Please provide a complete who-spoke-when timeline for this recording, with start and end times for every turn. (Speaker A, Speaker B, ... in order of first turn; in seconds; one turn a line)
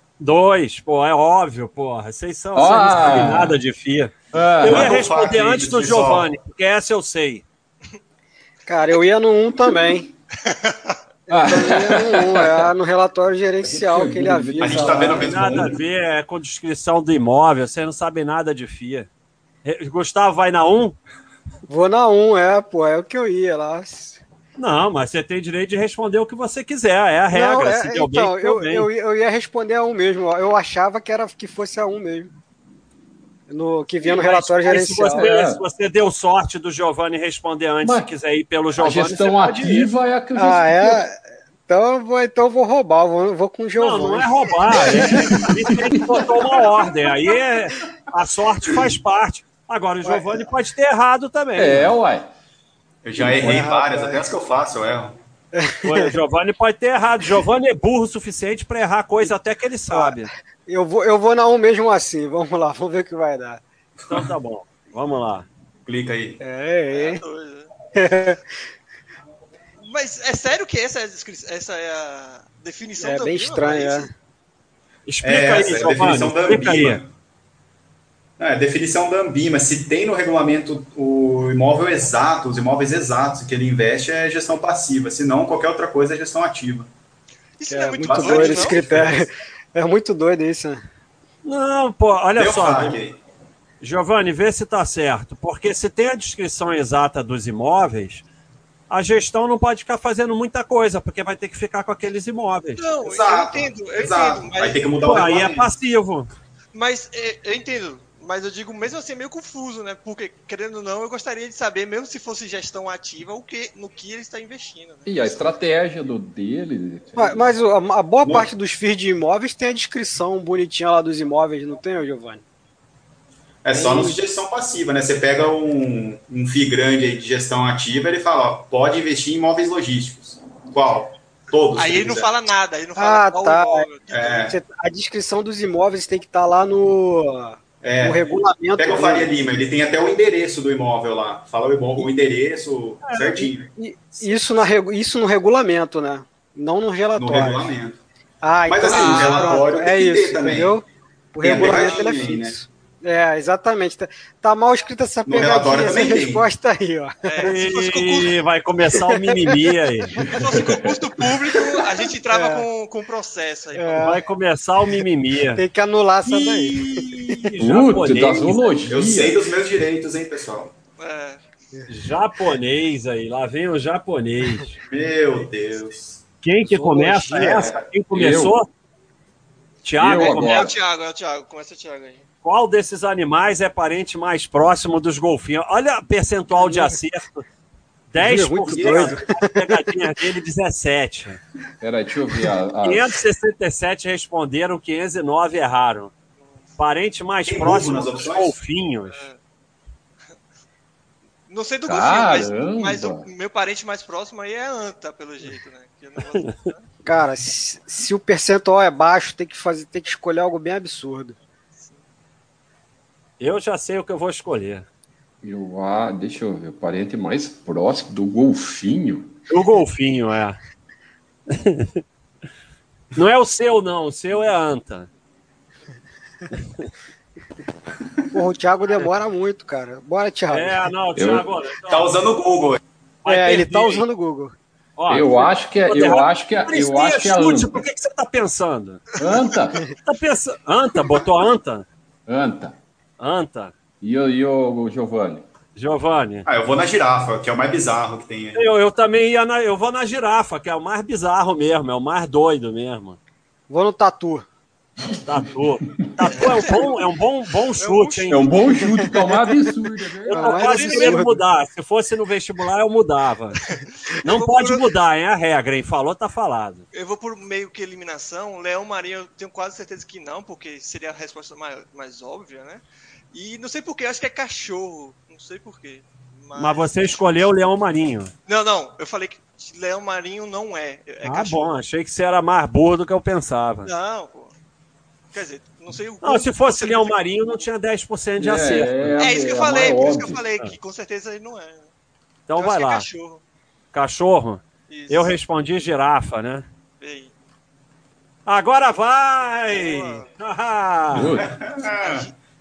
Speaker A: 0.2-7.5
Speaker B: 2.5-3.6
Speaker B: 4.3-5.0
Speaker C: 4.7-6.3
Speaker D: 8.7-10.1
Speaker E: 10.4-11.0
Speaker D: 11.3-15.3
Speaker B: 11.3-12.7
Speaker B: 13.6-15.7
Speaker C: 14.6-15.7
Speaker A: 15.2-19.1
Speaker A: 19.6-21.0
Speaker D: 21.7-24.2
Speaker A: 24.6-28.9
Speaker D: 27.3-32.3
Speaker D: 33.5-35.3
Speaker A: 34.0-39.9
Speaker B: 35.1-35.6
Speaker B: 37.8-38.1
Speaker B: 38.8-41.1
Speaker D: 40.4-41.2
Speaker D: 41.7-45.5
Speaker A: 43.8-51.9
Speaker D: 50.0-50.5
Speaker B: 51.6-52.3
Speaker C: 53.0-55.2
Speaker B: 53.2-53.5
Speaker D: 53.4-54.2
Speaker D: 55.5-56.1
Speaker A: 55.8-60.3
Speaker D: 59.9-63.6
Speaker A: 64.1-65.5
Speaker C: 65.9-66.4
Speaker D: 66.4-67.2
Speaker E: 66.9-67.7
Speaker D: 67.9-68.4
Speaker E: 69.8-74.1
Speaker D: 73.0-74.1
Speaker A: 75.1-77.0
Speaker C: 75.2-77.1
Speaker C: 78.4-86.9
Speaker E: 87.6-89.0
Speaker D: 87.7-90.8
Speaker C: 88.0-89.2
Speaker A: 91.5-93.0
Speaker C: 92.4-93.2
Speaker A: 93.8-98.2
Speaker A: 98.9-102.9
Speaker E: 102.8-104.9
Speaker C: 103.0-105.7
Speaker A: 105.0-106.3
Speaker E: 106.7-115.4
Speaker B: 115.1-117.5
Speaker D: 117.2-122.4
Speaker C: 118.2-118.5
Speaker C: 123.6-132.3
Speaker D: 123.7-124.2
Speaker E: 131.8-134.5
Speaker D: 133.0-133.9
Speaker C: 134.1-134.6
Speaker D: 134.4-139.3
Speaker C: 137.8-143.7
Speaker A: 143.0-143.5
Speaker D: 143.8-147.7
Speaker C: 147.2-148.0
Speaker D: 148.4-157.6
Speaker C: 148.7-150.8
Speaker E: 148.9-149.6
Speaker C: 151.4-152.6
Speaker E: 151.6-152.3
Speaker C: 155.3-156.5
Speaker E: 157.2-158.4
Speaker A: 157.4-160.2
Speaker D: 158.9-159.6
Speaker B: 160.2-161.1
Speaker E: 160.3-164.2
Speaker D: 161.6-162.7
Speaker D: 163.8-164.2
Speaker A: 163.9-165.6
Speaker D: 165.5-167.2
Speaker A: 166.2-168.7
Speaker B: 167.6-169.4
Speaker C: 168.9-170.7
Speaker E: 171.0-171.4
Speaker A: 171.9-174.7
Speaker C: 174.8-176.2
Speaker A: 176.4-178.7
Speaker D: 176.7-177.7
Speaker C: 177.4-177.8
Speaker B: 178.1-178.6
Speaker A: 179.8-180.7
Speaker B: 180.0-180.7
Speaker E: 180.2-182.2
Speaker A: 182.4-187.4
Speaker D: 186.6-186.9
Speaker A: 188.1-191.4
Speaker D: 188.2-190.0
Speaker C: 188.7-189.2
Speaker B: 191.8-193.2
Speaker A: 192.8-196.1
Speaker E: 196.4-196.7
Speaker A: 196.8-199.3
Speaker C: 197.5-198.6
Speaker E: 199.1-199.4
Speaker E: 201.5-206.9
Speaker B: 201.9-203.3
Speaker D: 207.1-211.4
Speaker E: 211.8-212.0
Speaker A: 213.4-214.9
Speaker B: 215.4-219.3
Speaker A: 219.5-220.6
Speaker A: 221.5-222.0
Speaker A: 223.2-225.1
Speaker D: 228.3-230.8
Speaker A: 230.5-232.1
Speaker B: 231.2-231.5
Speaker C: 231.8-232.8
Speaker A: 233.2-234.1
Speaker D: 233.2-234.6
Speaker A: 235.0-239.0
Speaker B: 235.1-237.8
Speaker B: 239.2-239.9
Speaker A: 240.0-241.9
Speaker B: 242.3-242.8
Speaker A: 243.2-243.7
Speaker B: 244.0-245.5
Speaker A: 245.8-246.5
Speaker C: 246.5-248.6
Speaker A: 248.6-253.2
Speaker D: 253.7-254.5
Speaker A: 255.2-258.5
Speaker E: 256.4-256.9
Speaker E: 257.8-259.0
Speaker B: 258.3-260.7
Speaker A: 260.2-263.6
Speaker D: 260.3-261.4
Speaker E: 260.7-261.2
Speaker E: 263.7-264.9
Speaker A: 264.2-266.9
Speaker E: 266.9-277.2
Speaker A: 276.5-278.3
Speaker E: 278.5-281.7
Speaker A: 281.2-283.9
Speaker E: 283.9-284.5
Speaker E: 285.3-287.3
Speaker A: 286.2-289.2
Speaker B: 288.4-290.4
Speaker E: 289.2-291.9
Speaker A: 292.5-293.1
Speaker E: 292.6-293.4
Speaker A: 293.9-296.7
Speaker E: 294.9-295.4
Speaker E: 297.0-297.3
Speaker A: 298.5-301.3
Speaker E: 299.7-300.3
Speaker B: 301.1-301.5
Speaker C: 301.3-302.3
Speaker E: 301.8-302.3